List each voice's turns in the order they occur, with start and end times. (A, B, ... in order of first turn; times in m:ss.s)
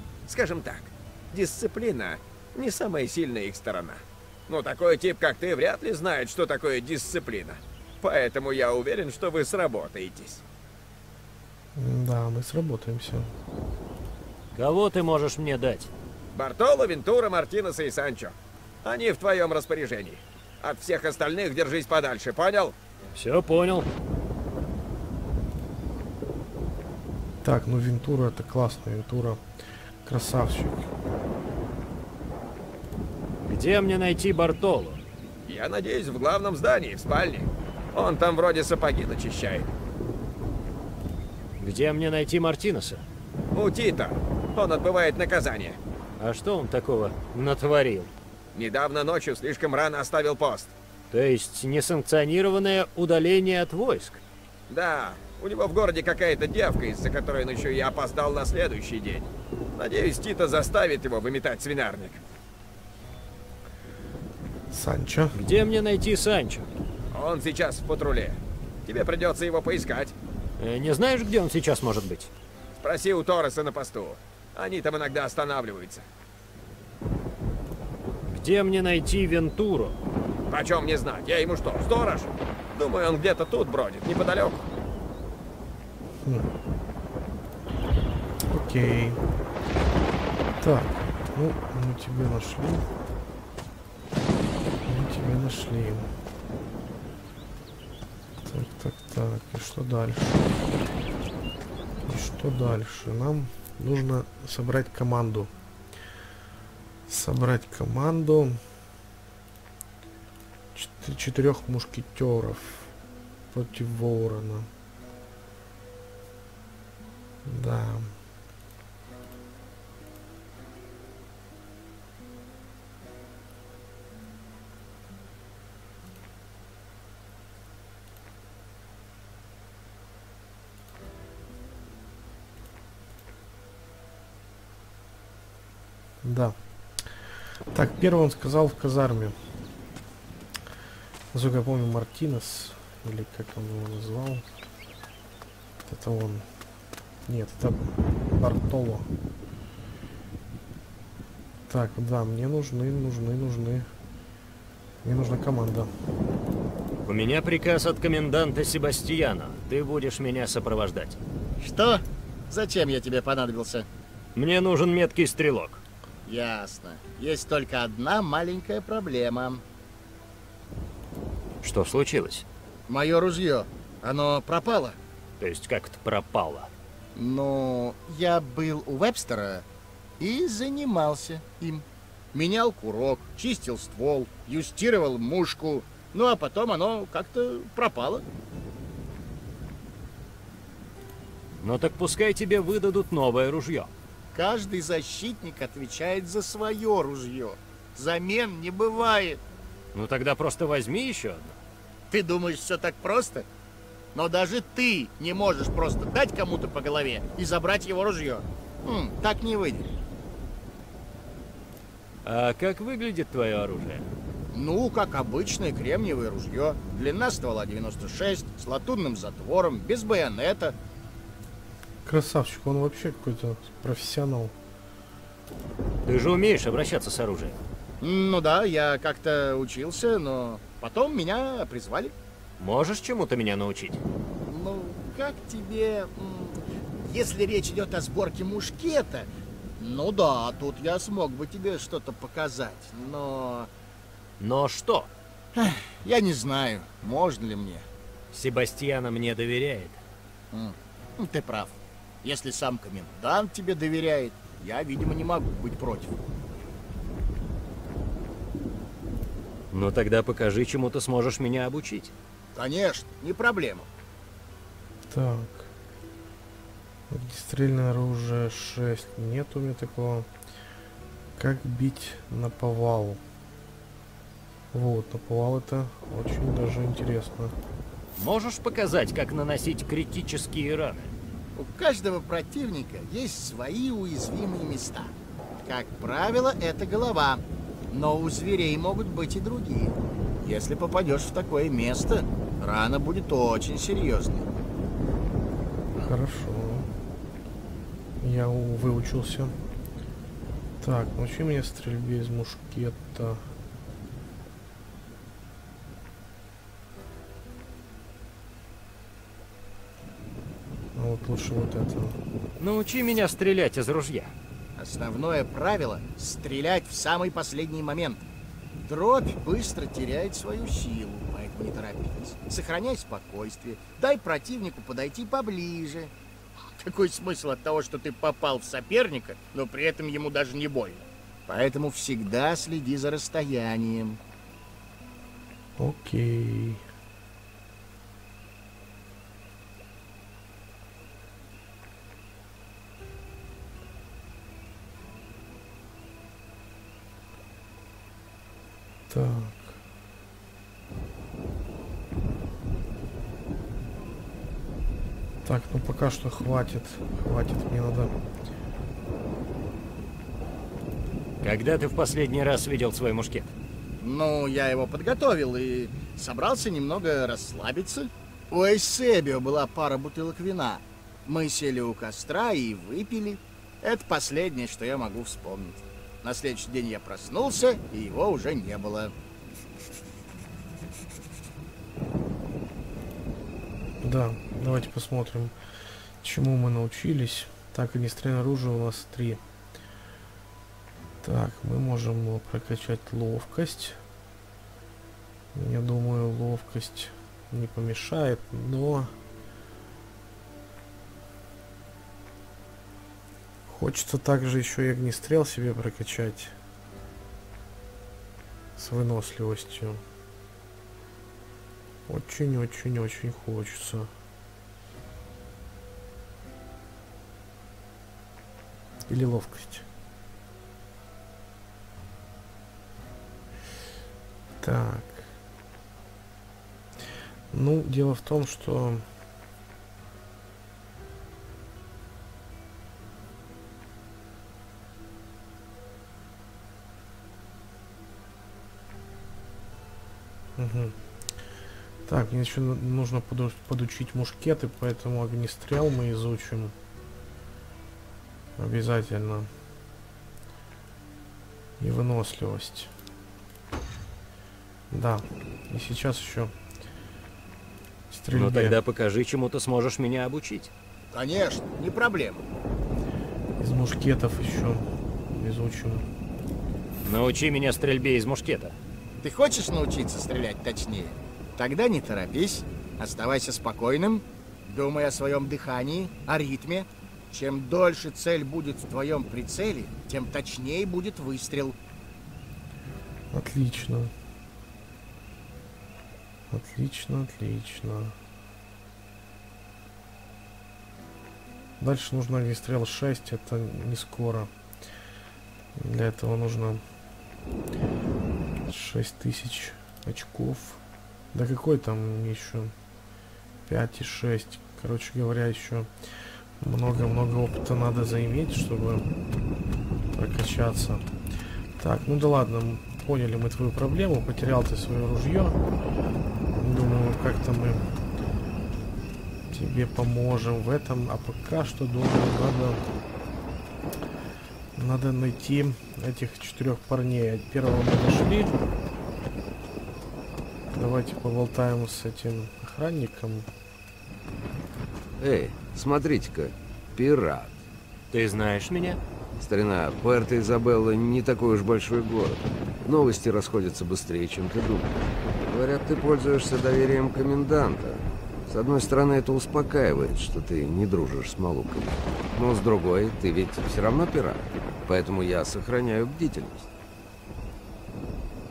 0:00.3-0:10.4 A
0:11.8-0:13.3 B
0:14.5-0:15.9 C
0:16.4-0:22.8 A
0:23.2-0:23.9 C
0:27.4-0:29.4 B
0:30.0-0:30.9 B
0:33.5-0:35.0 C
0:35.5-0:39.7 A
0:41.6-0:43.0 C
0:43.5-0:45.8 A
0:46.2-0:48.1 C
0:48.5-0:50.7 A
0:51.1-0:54.2 C
0:54.7-1:02.2 A
1:04.7-1:05.4 B
1:05.4-1:06.7 C
1:07.1-1:10.2 A
1:10.6-1:12.3 C
1:12.8-1:16.0 A
1:18.3-1:20.0 C
1:20.5-1:24.7 A
1:28.5-1:29.2 B
1:30.6-1:32.8 B
1:34.8-1:36.1 B
1:38.5-1:40.5 B
1:42.1-1:45.5 B
1:47.1-1:48.6 B
1:50.8-1:52.9 B
1:53.5-1:54.7 B
1:57.5-1:58.1 B
2:16.2-2:16.6 B
2:17.7-2:19.4 B
2:21.3-2:24.5 B
2:25.9-2:26.5 B
2:27.3-2:29.1 B
2:31.7-2:33.9 B
2:35.0-2:35.9 B
2:37.1-2:41.2 C
2:41.6-2:43.9 D
2:44.4-2:45.8 C
2:46.2-2:49.6 D
2:51.6-2:52.5 C
2:52.9-2:55.0 D
2:55.4-2:56.7 C
2:57.2-2:59.7 D
3:00.2-3:08.2 D
3:11.6-3:13.9 C
3:14.3-3:19.4 D
3:19.9-3:21.6 C
3:22.1-3:23.5 D
3:24.1-3:29.9 D
3:32.2-3:34.1 C
3:34.5-3:40.8 D
3:42.0-3:44.5 B
3:46.0-3:47.6 C
3:48.0-3:52.1 D
3:52.6-3:54.0 C
3:54.5-4:03.7 D
4:04.4-4:05.1 C
4:05.6-4:07.9 D
4:08.3-4:10.0 C
4:10.5-4:16.2 D
4:19.7-4:22.1 C
4:22.6-4:23.9 D
4:25.1-4:25.7 B
4:27.1-4:30.3 B
4:31.4-4:33.2 B
4:34.7-4:37.6 B
4:38.2-4:41.1 C
4:41.6-4:45.1 D
4:45.6-4:54.5 D
4:56.0-4:56.9 B
4:58.2-4:59.5 B
5:00.8-5:03.4 B
5:11.0-5:12.2 B
5:12.6-5:14.3 C
5:14.8-5:18.2 D
5:18.8-5:26.1 D
5:26.8-5:34.2 D
5:35.8-5:36.8 B
5:49.1-5:49.8 B
5:55.4-5:58.1 B
6:01.4-6:03.6 C
6:04.0-6:19.1 D
6:24.0-6:25.5 B
6:26.2-6:29.4 B
6:31.2-6:34.0 B
6:35.5-6:39.1 B
6:43.7-6:46.5 B
6:48.8-6:50.0 B
6:52.1-6:54.1 B
6:59.1-6:59.8 B
7:04.6-7:05.3 B
7:07.5-7:09.0 B
7:20.6-7:20.9 B
7:22.1-7:26.7 B
7:28.6-7:29.5 B
7:31.8-7:32.9 B
7:34.9-7:36.5 B
7:38.1-7:38.8 B
7:38.3-7:40.7 C
7:41.1-7:42.4 D
7:43.6-7:46.1 B
7:47.0-7:48.8 C
7:49.2-8:01.8 D
8:03.3-8:04.1 B
8:06.5-8:08.1 B
8:11.8-8:14.5 B
8:15.8-8:16.8 B
8:18.7-8:20.8 B
8:21.3-8:22.7 B
8:23.7-8:25.9 B
8:26.6-8:29.1 B
8:30.1-8:31.1 B
8:31.8-8:35.6 B
8:36.6-8:37.8 B
8:39.5-8:42.8 B
8:44.8-8:48.6 B
8:50.7-8:53.5 B
8:55.2-8:57.6 E
8:58.1-8:59.0 C
8:59.4-9:16.7 E